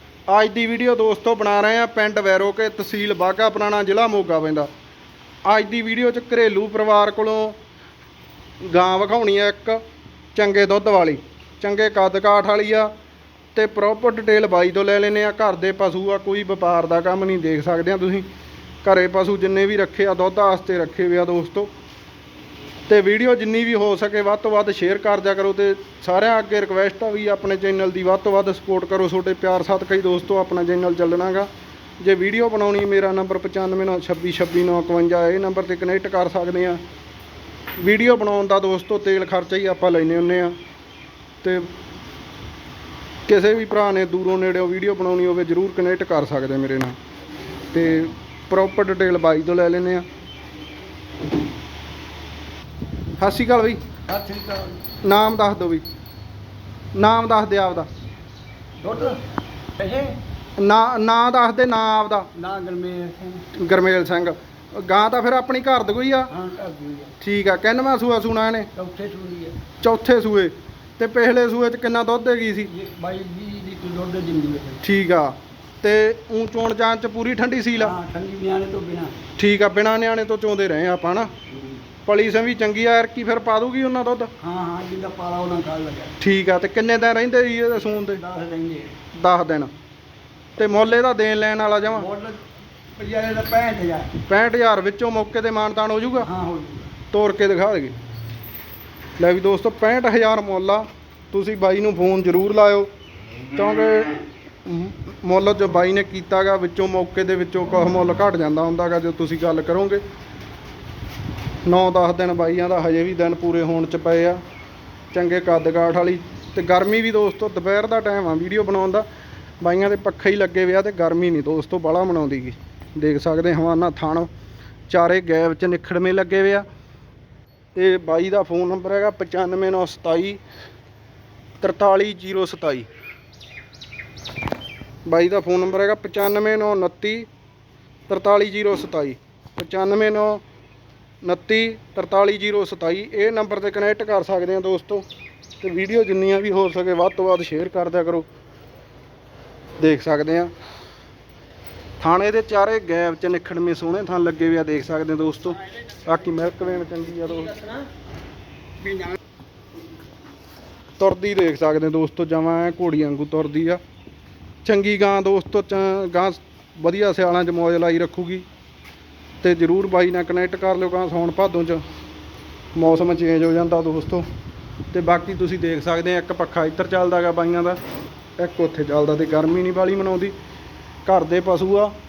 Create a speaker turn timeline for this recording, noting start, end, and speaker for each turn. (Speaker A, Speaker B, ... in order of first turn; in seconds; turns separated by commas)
Speaker A: 0.3-4.7, Speaker A: 5.5-7.6, Speaker A: 8.6-9.8, Speaker A: 10.3-12.9, Speaker A: 13.5-18.3, Speaker A: 18.8-21.7, Speaker A: 22.9-31.5, Speaker A: 32.0-36.8, Speaker A: 37.8-40.5, Speaker A: 41.4-41.7, Speaker A: 43.3-47.0, Speaker A: 47.7-50.0, Speaker A: 53.2-53.8, Speaker B: 54.1-54.8, Speaker A: 55.0-55.9, Speaker A: 57.0-57.9, Speaker B: 58.8-59.2, Speaker B: 59.8-60.2, Speaker A: 60.6-62.3, Speaker B: 62.3-63.5, Speaker A: 63.5-66.3, Speaker B: 66.3-67.2, Speaker A: 67.2-68.7, Speaker B: 68.7-69.6, Speaker A: 69.8-72.7, Speaker B: 72.7-74.8, Speaker A: 74.8-78.0, Speaker B: 77.8-79.2, Speaker A: 79.4-81.3, Speaker A: 82.1-84.3, Speaker B: 84.4-86.2, Speaker A: 86.2-88.2, Speaker B: 87.9-88.9, Speaker A: 89.1-89.7, Speaker A: 90.6-92.1, Speaker B: 91.9-92.4, Speaker B: 93.0-94.2, Speaker A: 94.2-96.3, Speaker B: 96.2-96.9, Speaker A: 97.1-97.9, Speaker A: 99.2-102.9, Speaker A: 103.5-110.0, Speaker A: 111.7-114.4, Speaker A: 115.1-119.1, Speaker A: 119.6-124.3, Speaker A: 124.9-126.7, Speaker A: 127.8-130.4, Speaker A: 131.6-132.9, Speaker A: 135.1-137.3, Speaker A: 138.1-140.4, Speaker A: 141.2-145.1, Speaker A: 145.6-148.3, Speaker A: 149.8-150.5, Speaker A: 152.0-157.8, Speaker A: 161.0-163.8, Speaker A: 164.6-168.5, Speaker A: 169.4-171.8, Speaker A: 172.8-174.2, Speaker A: 174.9-177.8, Speaker A: 178.4-180.3, Speaker A: 181.1-181.9